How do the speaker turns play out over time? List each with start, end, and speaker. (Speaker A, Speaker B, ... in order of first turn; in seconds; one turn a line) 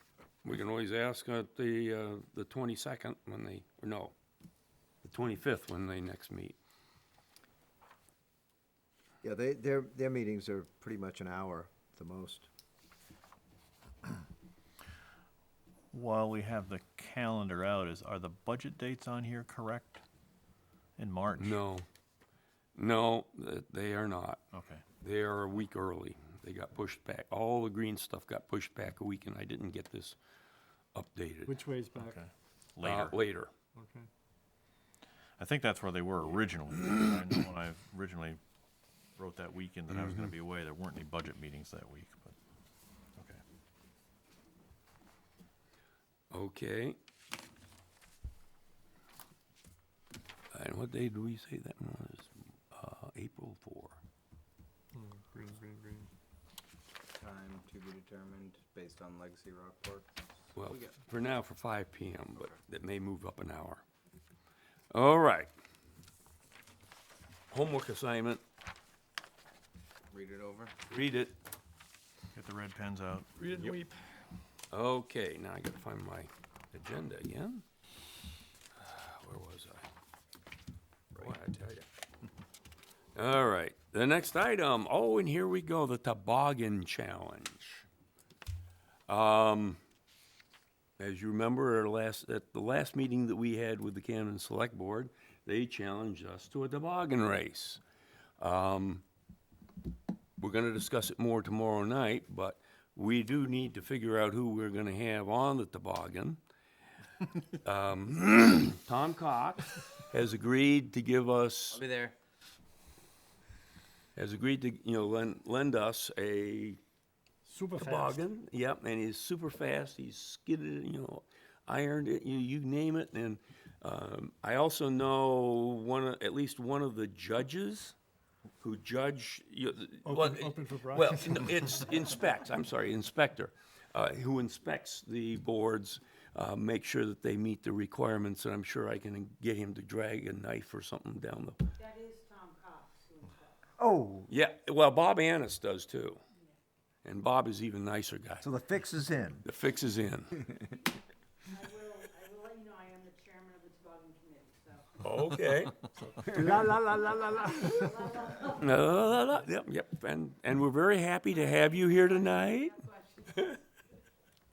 Speaker A: 0.4-4.1
Speaker A: 5.0-6.6
Speaker B: 9.2-12.5
Speaker C: 15.9-20.0
Speaker C: 21.0-21.6
Speaker A: 21.4-21.9
Speaker A: 22.7-24.4
Speaker C: 24.5-24.8
Speaker A: 25.0-30.1
Speaker A: 30.9-31.6
Speaker D: 31.4-32.2
Speaker C: 32.0-33.2
Speaker A: 32.8-33.5
Speaker D: 33.8-34.1
Speaker C: 35.4-38.4
Speaker C: 39.1-42.4
Speaker A: 39.9-40.3
Speaker C: 43.1-43.4
Speaker A: 46.3-47.0
Speaker A: 50.5-54.0
Speaker D: 54.9-56.1
Speaker E: 57.1-61.0
Speaker A: 60.5-63.8
Speaker E: 62.4-62.6
Speaker A: 64.9-65.5
Speaker A: 67.5-68.4
Speaker E: 70.1-70.7
Speaker A: 70.9-71.3
Speaker C: 72.3-73.3
Speaker D: 73.4-74.0
Speaker A: 74.7-77.6
Speaker A: 78.7-79.8
Speaker A: 81.1-81.8
Speaker A: 83.1-87.8
Speaker A: 89.1-89.8
Speaker A: 91.0-97.8
Speaker A: 98.4-99.0
Speaker A: 100.4-106.4
Speaker A: 107.6-111.8
Speaker E: 111.7-112.1
Speaker A: 114.2-116.8
Speaker D: 117.4-118.2
Speaker A: 117.8-128.0
Speaker A: 128.6-141.7
Speaker D: 130.0-131.6
Speaker F: 141.8-143.5
Speaker B: 143.8-144.3
Speaker A: 144.3-146.2
Speaker A: 147.0-148.5
Speaker B: 148.4-149.4
Speaker A: 149.4-150.5
Speaker F: 151.5-154.9
Speaker A: 155.0-156.7
Speaker B: 156.2-158.0
Speaker F: 157.7-158.6
Speaker A: 158.6-163.6
Speaker F: 161.8-163.5